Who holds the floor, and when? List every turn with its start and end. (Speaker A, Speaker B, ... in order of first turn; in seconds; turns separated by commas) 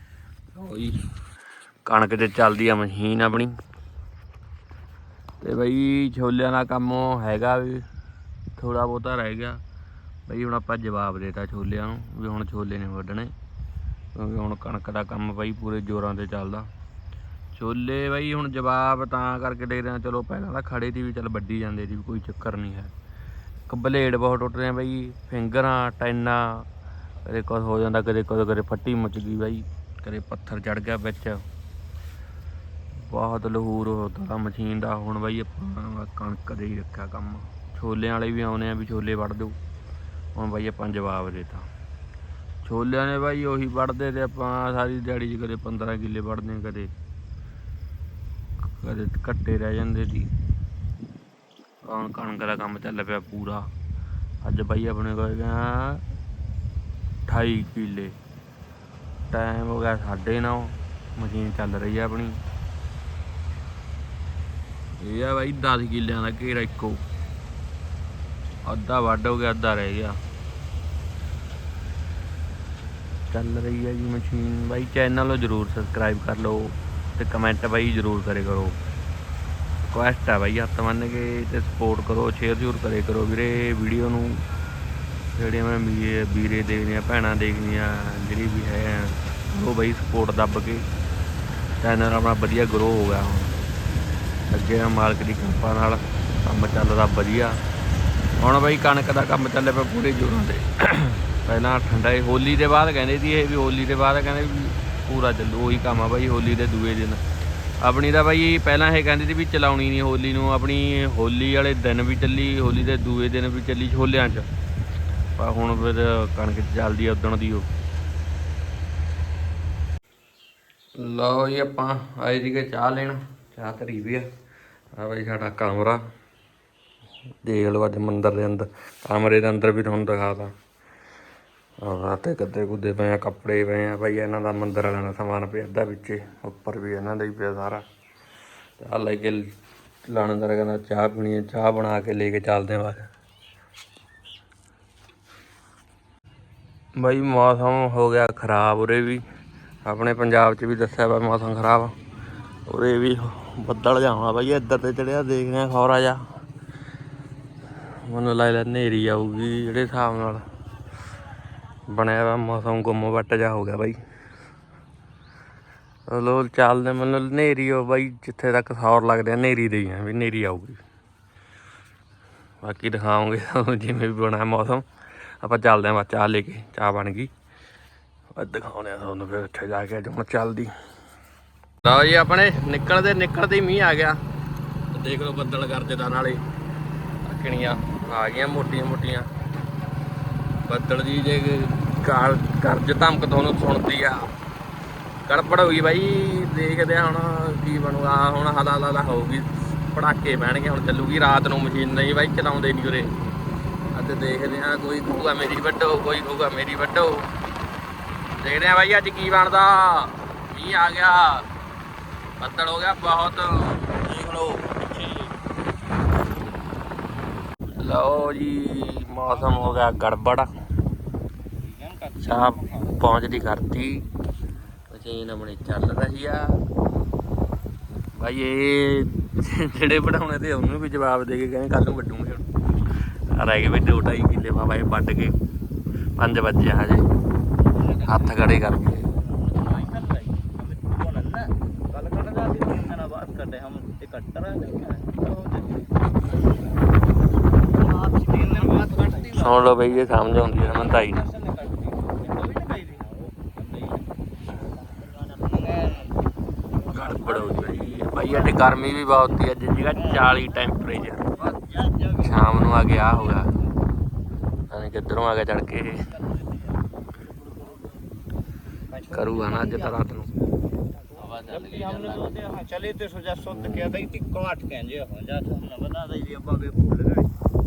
Speaker A: 0.5-1.0, Speaker A: 1.9-3.5, Speaker A: 5.4-7.9, Speaker A: 8.6-9.6, Speaker A: 10.3-13.3, Speaker A: 14.2-16.7, Speaker A: 17.6-22.9, Speaker A: 23.7-26.6, Speaker A: 27.2-31.4, Speaker A: 32.9-39.6, Speaker A: 40.4-41.7, Speaker A: 42.6-46.9, Speaker A: 48.7-50.3, Speaker A: 51.8-53.6, Speaker A: 54.4-56.0, Speaker A: 57.3-58.1, Speaker A: 59.3-62.4, Speaker A: 65.0-67.0, Speaker A: 68.7-70.2, Speaker A: 73.3-78.8, Speaker A: 79.9-84.4, Speaker A: 85.3-90.8, Speaker A: 91.8-93.6, Speaker A: 94.5-97.6, Speaker A: 98.4-107.2, Speaker A: 107.8-114.5, Speaker A: 115.4-117.7, Speaker A: 121.0-124.3, Speaker A: 125.0-126.0, Speaker A: 127.4-130.5, Speaker A: 131.8-137.8, Speaker A: 138.8-139.4, Speaker A: 140.1-143.1, Speaker A: 147.0-149.2, Speaker A: 149.8-151.9, Speaker A: 152.7-156.2, Speaker A: 158.0-160.4, Speaker A: 161.9-164.0, Speaker A: 166.1-170.8, Speaker A: 172.6-174.8, Speaker A: 175.4-177.3, Speaker A: 178.4-180.7, Speaker A: 181.8-184.2, Speaker A: 184.9-186.4, Speaker A: 187.3-189.3, Speaker A: 190.7-194.3, Speaker A: 195.3-203.1, Speaker A: 203.9-207.3, Speaker A: 208.4-211.4, Speaker A: 212.4-215.3, Speaker A: 217.8-220.5, Speaker B: 219.3-219.8, Speaker B: 221.6-223.0, Speaker A: 222.2-224.1, Speaker A: 224.9-226.6, Speaker A: 228.2-232.5, Speaker A: 233.3-235.4, Speaker A: 236.2-237.1, Speaker B: 237.7-238.5, Speaker A: 238.0-239.1, Speaker B: 239.1-246.0, Speaker B: 247.6-249.9, Speaker A: 249.3-251.2, Speaker B: 250.5-254.1, Speaker B: 254.7-256.2, Speaker A: 256.9-261.2, Speaker B: 256.9-259.1, Speaker B: 259.9-262.5, Speaker A: 262.2-263.5, Speaker B: 263.4-263.7, Speaker A: 264.7-266.1, Speaker B: 266.2-266.5, Speaker B: 268.9-270.0, Speaker A: 269.1-270.3, Speaker B: 271.2-277.3, Speaker A: 271.2-272.3, Speaker A: 273.6-273.9